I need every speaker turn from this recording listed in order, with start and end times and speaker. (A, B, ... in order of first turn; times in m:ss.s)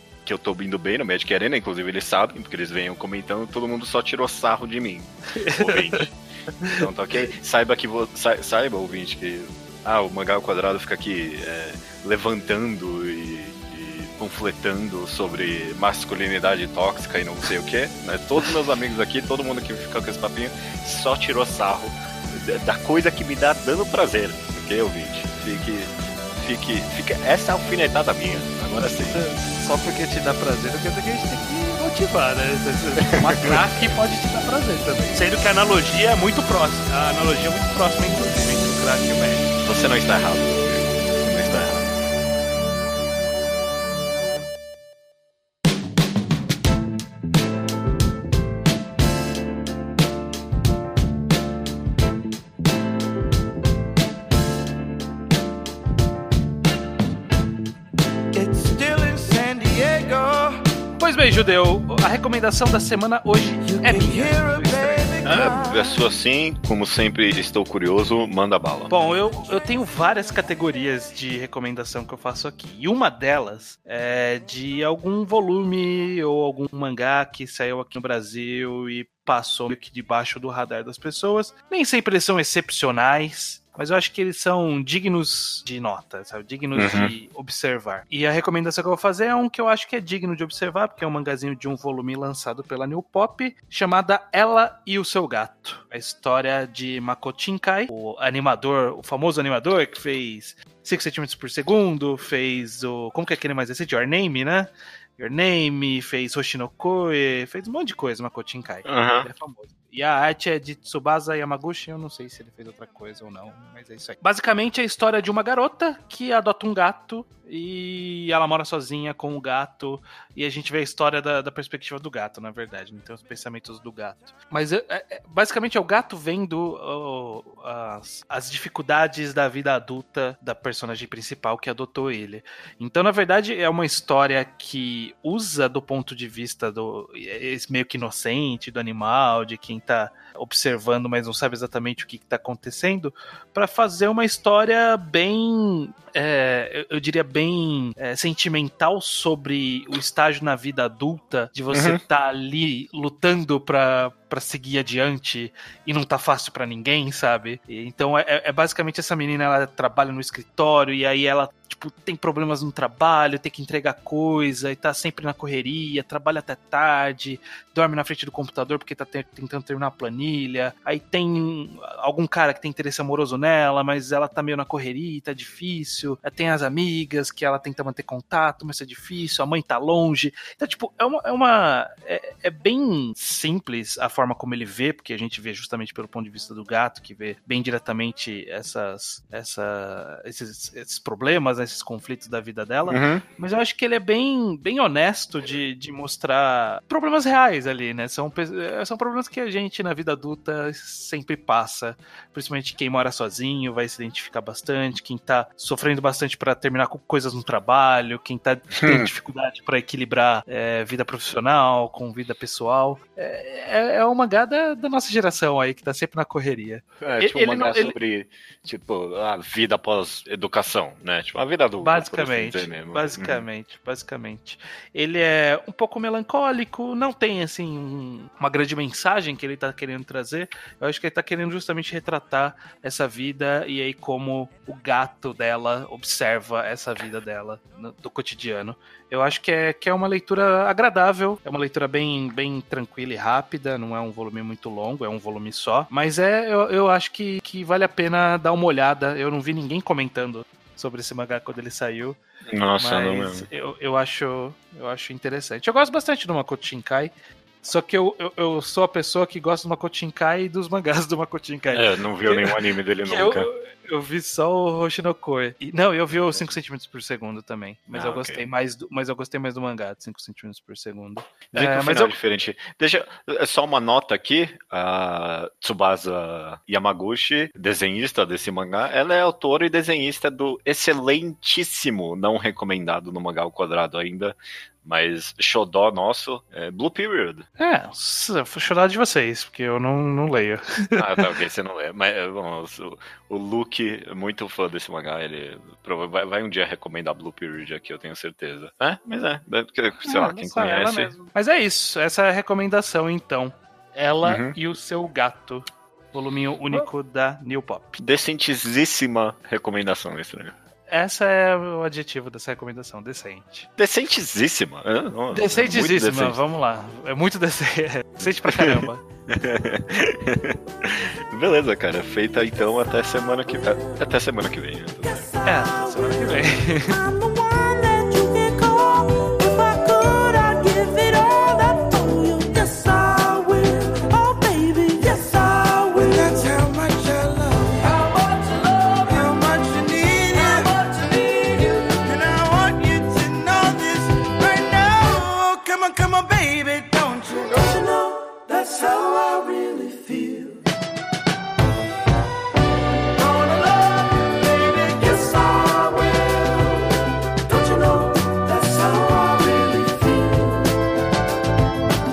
0:00.2-0:29.2 A
0:05.4-0:06.1 B
0:06.6-0:06.9 B
0:29.0-0:39.6 B
0:33.1-0:33.6 A
0:39.6-0:42.0 A
0:58.3-1:00.6 C
1:01.0-1:05.3 B
1:03.7-1:05.8 C
1:05.2-1:08.9 A
1:08.9-3:38.0 B
1:26.8-1:27.1 A
1:48.9-1:49.3 A
2:31.7-2:32.0 A
3:12.9-3:13.2 A
3:28.8-3:29.1 A
3:37.0-3:43.4 A
3:41.8-4:12.2 B
4:12.5-4:13.5 A
4:12.8-4:32.2 B
4:21.7-4:23.5 A
4:28.0-4:28.4 A
4:31.5-4:47.5 A
4:47.6-4:51.3 B
4:51.0-5:01.1 A
5:00.0-5:08.0 B
5:04.2-5:04.6 A
5:08.0-5:10.5 A
5:10.9-5:13.7 B
5:13.8-5:16.4 A
5:15.3-5:19.0 B
5:18.2-5:25.3 A
5:25.4-5:27.0 B
5:25.4-5:50.6 C
5:53.2-6:00.6 C